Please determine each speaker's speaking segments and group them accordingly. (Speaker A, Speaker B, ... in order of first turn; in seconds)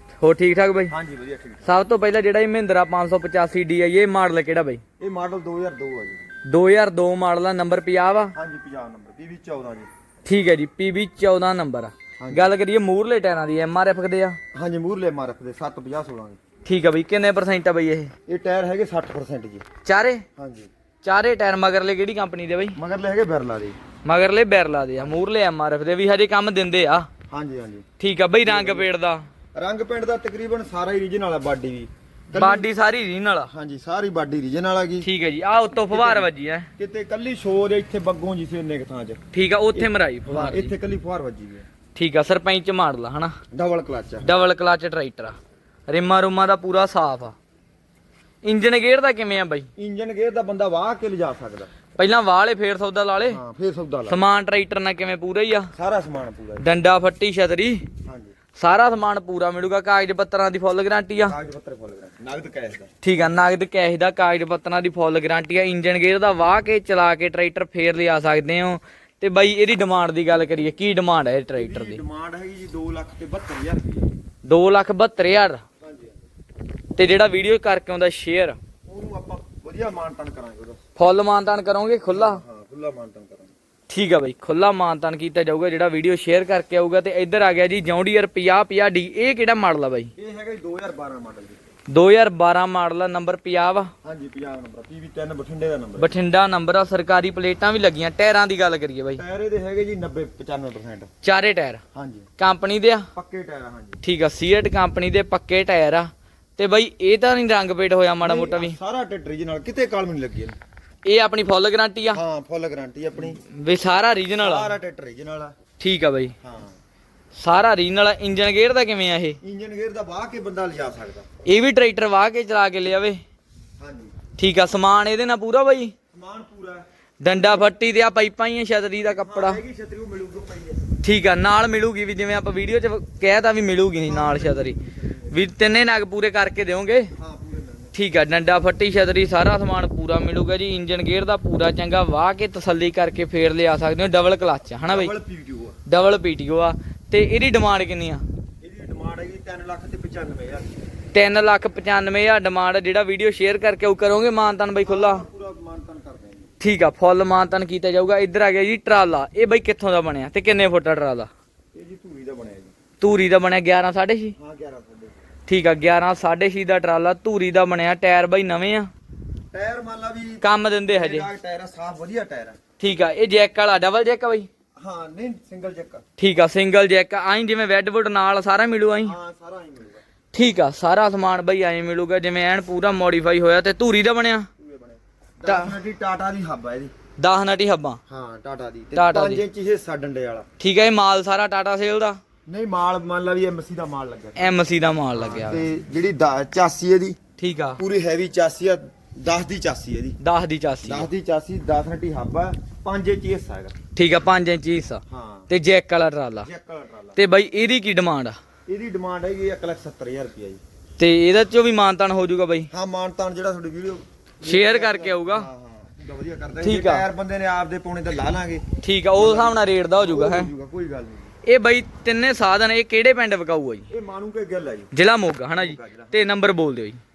Speaker A: 0.2-0.9, 1.6-4.8, 6.5-8.3, 10.2-14.4, 16.6-18.1, 19.8-20.2, 21.0-22.8, 24.1-27.1, 28.0-29.2, 32.3-33.5, 35.0-36.7, 39.3-40.7, 42.0-43.4, 44.2-45.4, 45.9-47.4, 48.4-49.7, 52.0-53.4, 54.1-55.7, 56.6-57.8, 58.6-61.4, 63.0-72.0, 74.5-75.6, 77.0-78.6, 81.0-82.4, 83.9-90.1, 91.9-93.9, 96.0-99.2, 101.2-101.8, 102.4-103.1, 104.0-108.8, 111.0-112.2, 113.2-114.7, 115.8-116.3, 117.4-119.4, 121.5-123.2, 124.4-125.9, 127.2-129.6, 131.0-137.1, 137.9-145.1, 145.9-148.2, 151.1-155.2, 156.6-161.3, 163.0-164.3, 165.5-168.9, 170.4-171.3, 172.8-174.5, 176.2-179.2, 180.3-184.5, 185.5-185.8, 187.2-188.0, 188.9-189.4, 190.6-192.2, 194.4-195.7, 197.4-197.8, 200.2-201.1, 203.9-206.5, 207.2-208.4, 211.0-212.7, 214.4-215.5, 216.6-217.1, 218.8-220.5, 221.4-223.9, 224.9-227.0
Speaker B: 0.9-1.7, 5.0-6.2, 8.3-9.9, 12.2-12.5, 14.5-16.4, 18.3-19.7, 20.4-20.7, 22.8-23.8, 27.3-27.9, 28.4-28.9, 29.5-32.7, 33.5-35.1, 35.9-39.2, 39.7-41.7, 43.5-44.3, 49.8-51.7, 53.3-54.2, 55.7-56.6, 58.0-58.4, 61.2-62.9, 71.5-74.2, 75.8-76.2, 78.9-80.8, 82.1-83.5, 90.2-91.6, 94.0-96.2, 99.2-101.1, 102.0-102.3, 103.2-104.0, 108.2-110.6, 112.1-113.4, 114.4-115.5, 116.4-116.8, 119.4-121.3, 123.8-124.1, 126.1-127.7, 129.0-130.8, 134.0-135.3, 137.2-137.9, 144.8-145.8, 148.6-150.7, 154.8-156.5, 161.7-162.7, 164.4-165.2, 169.5-172.6, 174.8-176.0, 179.0-180.0, 184.6-186.9, 188.1-190.5, 192.5-197.2, 197.8-200.2, 200.8-203.8, 205.1-205.5, 206.4-207.2, 208.7-210.6, 212.7-221.3, 223.9-224.9, 225.6-226.2